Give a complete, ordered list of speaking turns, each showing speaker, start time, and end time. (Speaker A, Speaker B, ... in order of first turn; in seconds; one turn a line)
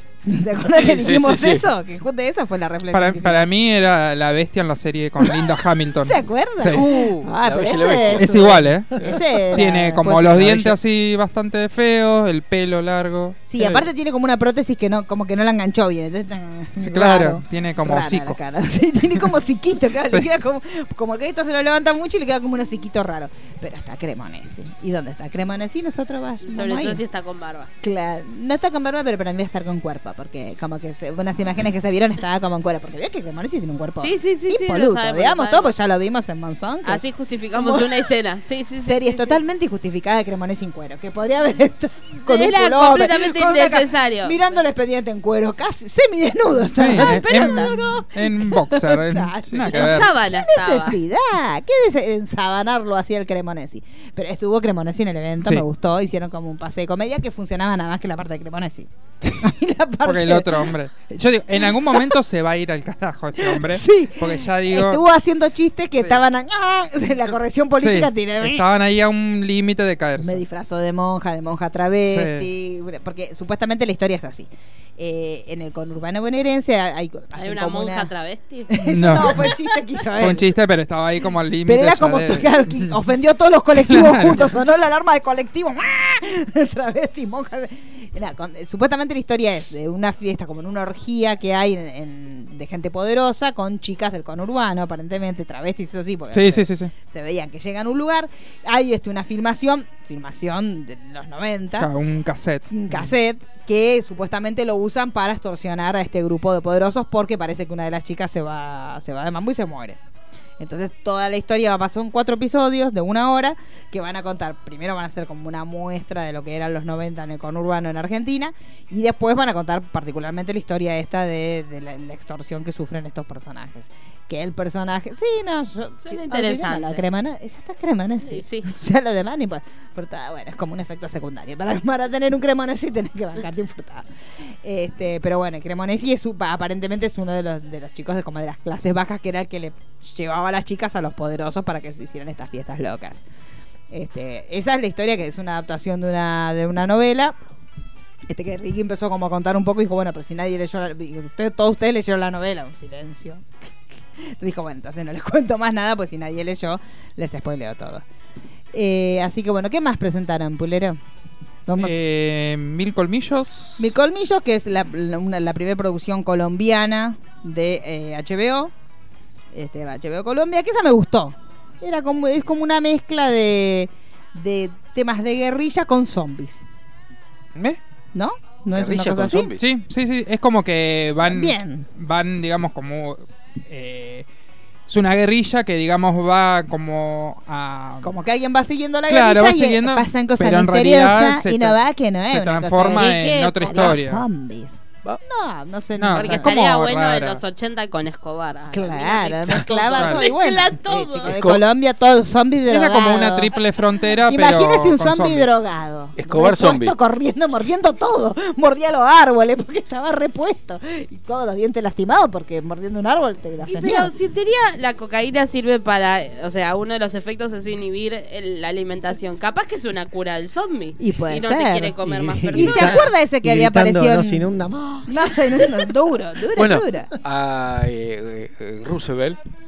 Speaker A: 0.2-3.4
Speaker B: 0.7-1.7
Speaker C: 2.9-6.9
Speaker A: 6.0-10.8
Speaker B: 6.7-9.2
Speaker C: 8.1-13.4
Speaker A: 13.5-27.0
Speaker C: 16.8-18.4
Speaker D: 26.4-27.7
Speaker A: 27.8-37.0
Speaker D: 34.0-35.7
Speaker D: 36.8-39.4
Speaker A: 37.5-38.0
Speaker A: 38.8-60.6
Speaker D: 42.2-44.6
Speaker C: 46.7-50.1
Speaker D: 46.9-47.7
Speaker D: 49.5-51.0
Speaker C: 60.0-65.0
Speaker A: 61.6-62.1
Speaker A: 63.4-68.6
Speaker C: 67.8-70.4
Speaker A: 70.2-78.1
Speaker C: 72.1-72.5
Speaker D: 77.3-79.6
Speaker A: 78.7-80.5
Speaker C: 78.9-79.5
Speaker C: 80.2-82.9
Speaker A: 81.7-101.9
Speaker C: 83.8-84.5
Speaker C: 96.3-96.9
Speaker C: 101.8-103.1
Speaker A: 102.7-110.0
Speaker A: 110.6-134.1
Speaker D: 126.0-127.0
Speaker D: 128.2-128.7
Speaker A: 134.6-143.2
Speaker A: 143.9-147.3
Speaker A: 148.3-153.4
Speaker A: 154.2-158.0
Speaker A: 158.7-161.0
Speaker A: 161.7-162.0
Speaker C: 161.8-163.9
Speaker A: 163.8-168.7
Speaker A: 169.5-176.6
Speaker A: 178.1-179.5
Speaker B: 178.7-179.6
Speaker C: 179.6-184.3
Speaker A: 181.2-181.9
Speaker C: 184.9-188.1
Speaker A: 188.0-196.5
Speaker C: 189.1-194.2
Speaker D: 192.9-194.0
Speaker C: 196.0-197.4
Speaker D: 196.2-201.4
Speaker A: 198.7-203.6
Speaker C: 199.9-200.3
Speaker B: 201.3-201.6
Speaker C: 202.7-205.6
Speaker A: 204.3-214.1
Speaker B: 206.2-207.0
Speaker D: 213.6-223.1
Speaker A: 221.0-221.9
Speaker E: 222.0-225.9
Speaker A: 222.5-224.5
Speaker A: 225.1-227.1
Speaker B: 226.5-229.4